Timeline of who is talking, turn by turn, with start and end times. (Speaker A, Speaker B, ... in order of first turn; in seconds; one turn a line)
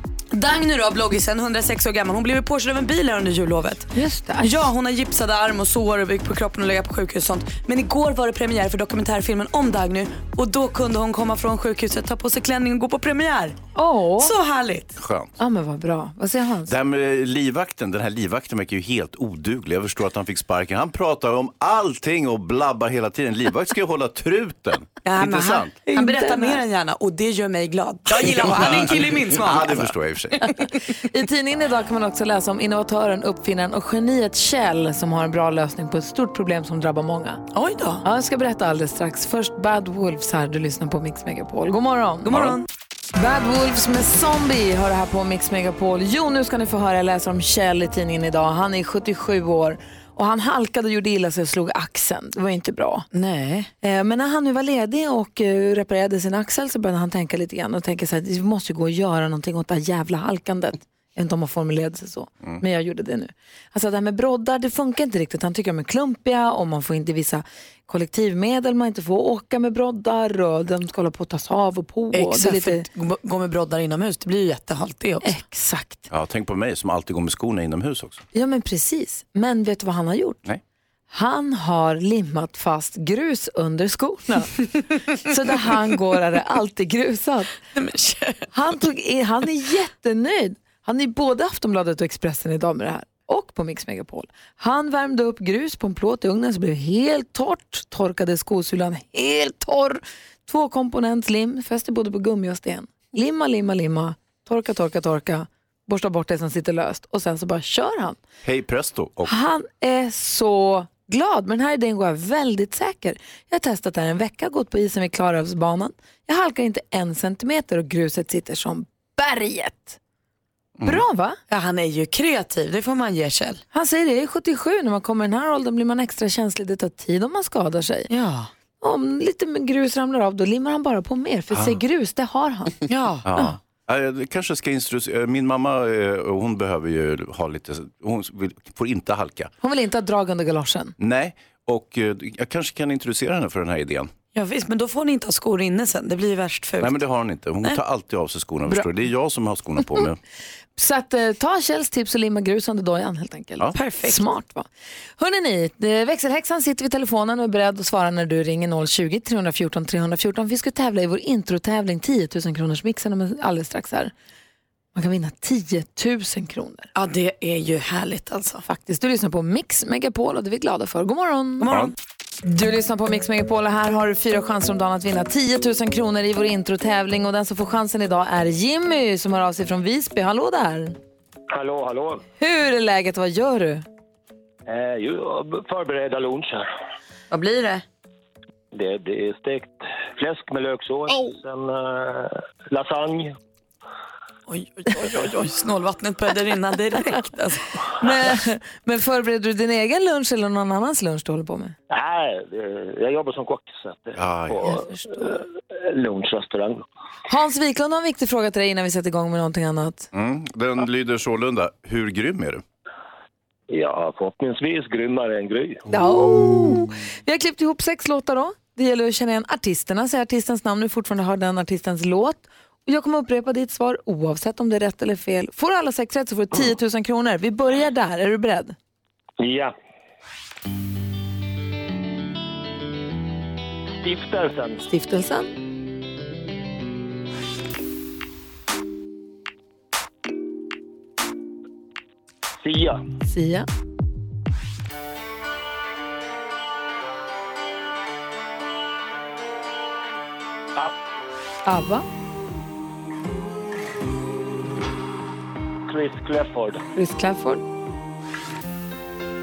Speaker A: 0.3-13.6
Speaker B: 4.0-4.7
Speaker B: 13.8-14.3
Speaker A: 14.2-15.0
Speaker C: 15.0-15.3
Speaker B: 15.4-16.7
Speaker C: 16.7-25.7
Speaker A: 25.0-29.9
Speaker B: 25.9-26.6
Speaker C: 28.4-30.4
Speaker B: 31.1-37.4
Speaker A: 37.5-38.0
Speaker B: 38.0-42.5
Speaker A: 42.2-42.7
Speaker B: 43.1-53.1
Speaker A: 53.1-53.7
Speaker B: 53.8-72.9
Speaker A: 72.1-75.3
Speaker B: 75.2-76.1
Speaker C: 76.1-78.2
Speaker B: 78.3-80.4
Speaker B: 81.1-87.6
Speaker A: 87.7-88.5
Speaker B: 88.5-108.2
Speaker C: 108.4-109.3
Speaker B: 109.3-120.0
Speaker B: 120.8-121.4
Speaker A: 121.5-123.6
Speaker B: 123.7-128.1
Speaker A: 128.1-128.5
Speaker B: 128.8-132.8
Speaker C: 131.5-131.8
Speaker A: 132.9-133.3
Speaker C: 133.2-139.5
Speaker B: 139.6-140.9
Speaker C: 141.0-144.1
Speaker A: 144.3-147.0
Speaker C: 146.8-150.2
Speaker B: 150.8-164.1
Speaker A: 153.7-154.3
Speaker B: 164.9-166.9
Speaker A: 166.9-168.6
Speaker B: 168.7-171.7
Speaker A: 171.6-171.9
Speaker B: 172.4-181.0
Speaker D: 181.5-182.2
Speaker B: 182.4-183.8
Speaker D: 184.7-186.7
Speaker A: 187.3-187.8
Speaker D: 188.7-193.3
Speaker A: 194.5-197.7
Speaker B: 198.0-201.8
Speaker D: 201.9-206.8
Speaker C: 204.2-204.7
Speaker B: 204.6-205.2
Speaker B: 207.3-210.1
Speaker C: 210.1-212.6
Speaker D: 213.7-215.8
Speaker B: 215.9-228.8
Speaker D: 229.4-229.7
Speaker D: 234.0-234.8
Speaker B: 234.9-235.5
Speaker D: 242.6-243.0
Speaker B: 243.3-243.7
Speaker B: 251.7-252.0
Speaker D: 255.9-256.8
Speaker B: 256.9-257.6